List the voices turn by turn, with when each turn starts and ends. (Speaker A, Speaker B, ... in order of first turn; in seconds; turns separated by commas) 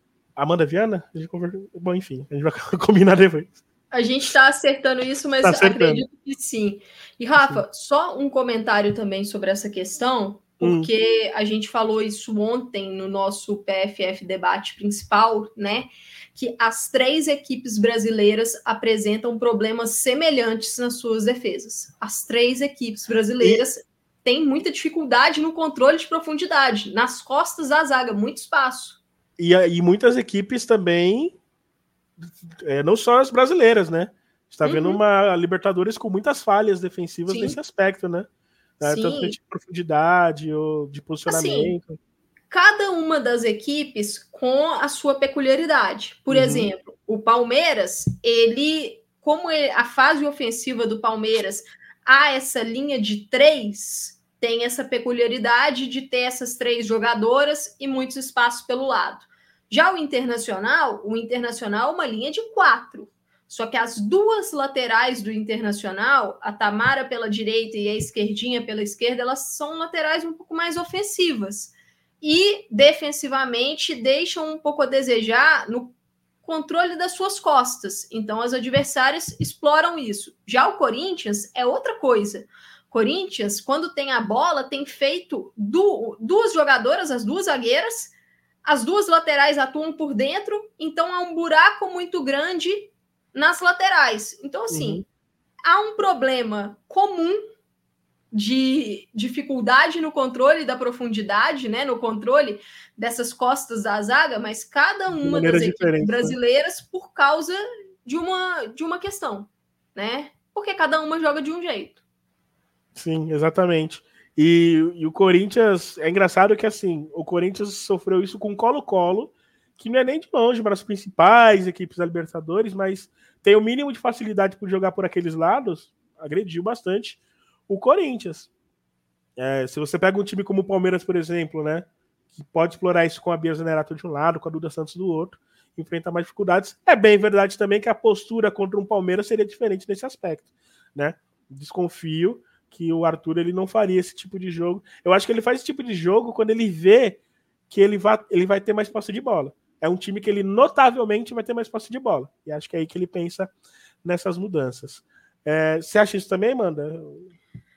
Speaker A: 0.4-3.6, Speaker B: 3.9-29.0, Speaker A: 5.4-6.0, Speaker A: 10.6-10.9, Speaker A: 29.4-31.4, Speaker A: 32.2-38.3, Speaker B: 34.6-35.0, Speaker B: 37.3-37.6, Speaker A: 38.8-42.0, Speaker B: 38.8-39.4, Speaker B: 41.3-41.7, Speaker B: 42.5-88.1, Speaker A: 46.3-46.7, Speaker B: 88.7-95.0, Speaker A: 94.7-95.0, Speaker B: 95.7-97.4, Speaker B: 98.3-112.0, Speaker A: 105.2-106.4, Speaker A: 113.0-128.5, Speaker A: 129.4-147.2, Speaker A: 147.7-153.5, Speaker A: 154.0-157.3